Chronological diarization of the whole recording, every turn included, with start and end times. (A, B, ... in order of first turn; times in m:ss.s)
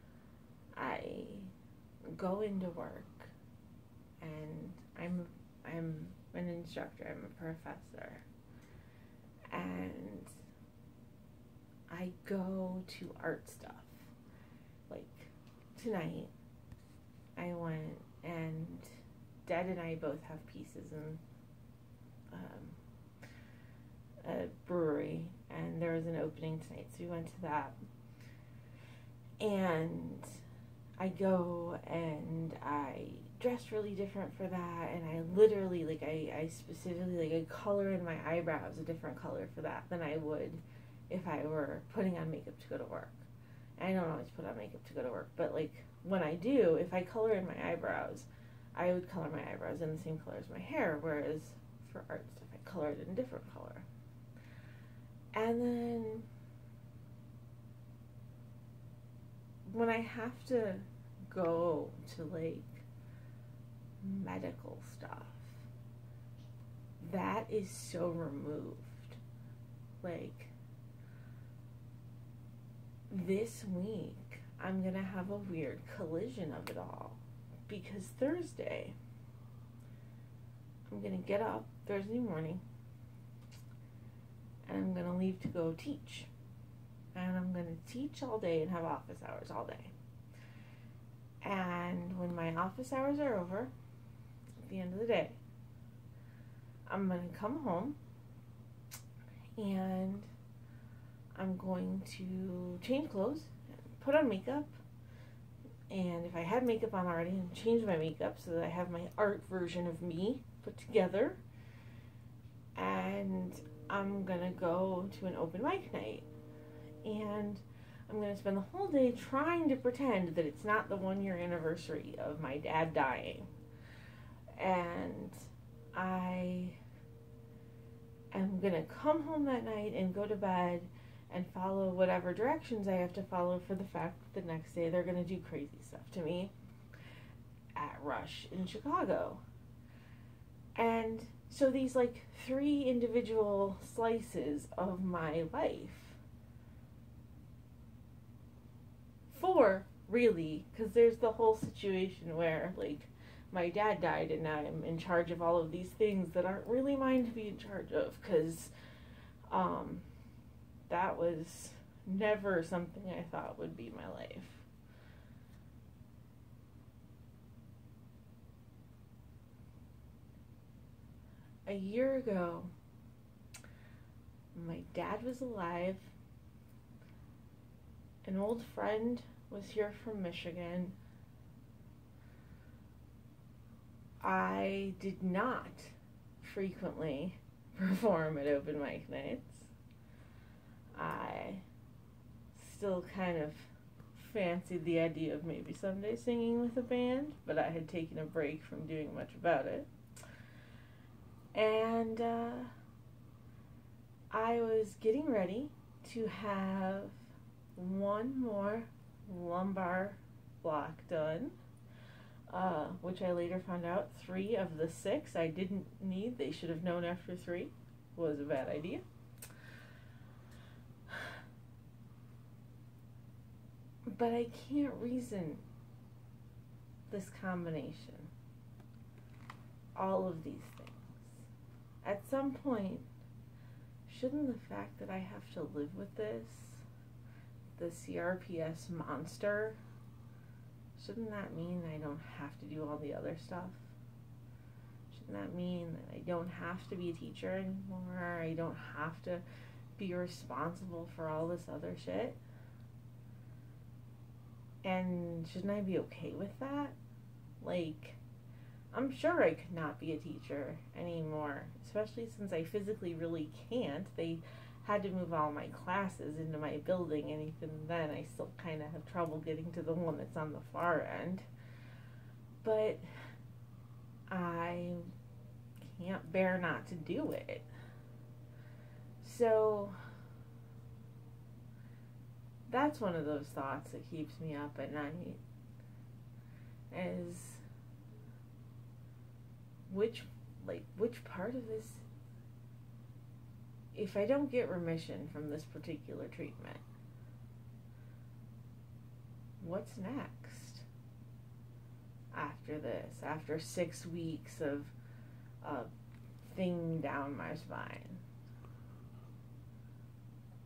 0:00.7-0:01.5 A
0:02.0-0:03.3 A
0:04.2-0:08.2 A
0:09.5-0:10.3 A
0:11.9-0:14.1 A
0:14.9-0:16.3 A
0:17.4-0:18.9 A
0:19.4-0:21.2 A
0:22.3-0:22.8 A
0:24.2-0:27.8 A
0:29.4-0:30.4 A
0:31.0-0:43.2 A
0:43.8-0:53.9 A
0:55.3-0:56.3 A
0:59.6-1:02.8 A
1:04.0-1:05.6 A
1:07.0-1:09.2 A
1:10.0-1:10.5 A
1:13.1-1:18.9 A
1:20.9-1:22.6 A
1:24.6-1:26.3 A
1:27.1-1:29.9 A
1:31.4-1:33.7 A
1:34.6-1:35.4 A
1:36.9-1:38.0 A
1:39.6-1:40.3 A
1:41.4-1:44.8 A
1:45.9-1:51.4 A
1:52.7-1:56.3 A
1:57.0-2:03.5 A
2:04.6-2:06.8 A
2:08.3-2:16.5 A
2:17.8-2:19.4 A
2:20.8-2:26.2 A
2:29.3-2:38.7 A
2:39.5-2:40.0 A
2:40.9-2:44.7 A
2:51.6-2:52.7 A
2:54.5-2:56.1 A
2:58.2-3:01.0 A
3:04.2-3:09.7 A
3:11.0-3:11.6 A
3:12.5-3:19.9 A
3:21.5-3:22.7 A
3:24.3-3:27.2 A
3:27.8-3:31.6 A
3:32.5-3:39.0 A
3:44.1-3:45.6 A
3:47.1-3:48.3 A
3:50.0-3:51.4 A
3:52.0-3:53.1 A
3:54.0-3:56.8 A
3:57.8-3:59.8 A
4:01.0-4:03.9 A
4:05.1-4:09.4 A
4:10.0-4:12.4 A
4:14.8-4:17.0 A
4:17.6-4:18.2 A
4:18.9-4:31.4 A
4:32.6-4:33.0 A
4:34.3-4:35.1 A
4:35.8-4:37.6 A
4:39.2-4:40.0 A
4:42.7-4:45.4 A
4:46.9-4:47.6 A
4:49.9-4:52.0 A
4:53.9-4:56.8 A
4:59.6-5:00.8 A
5:02.3-5:04.9 A
5:05.6-5:05.9 A
5:06.4-5:08.2 A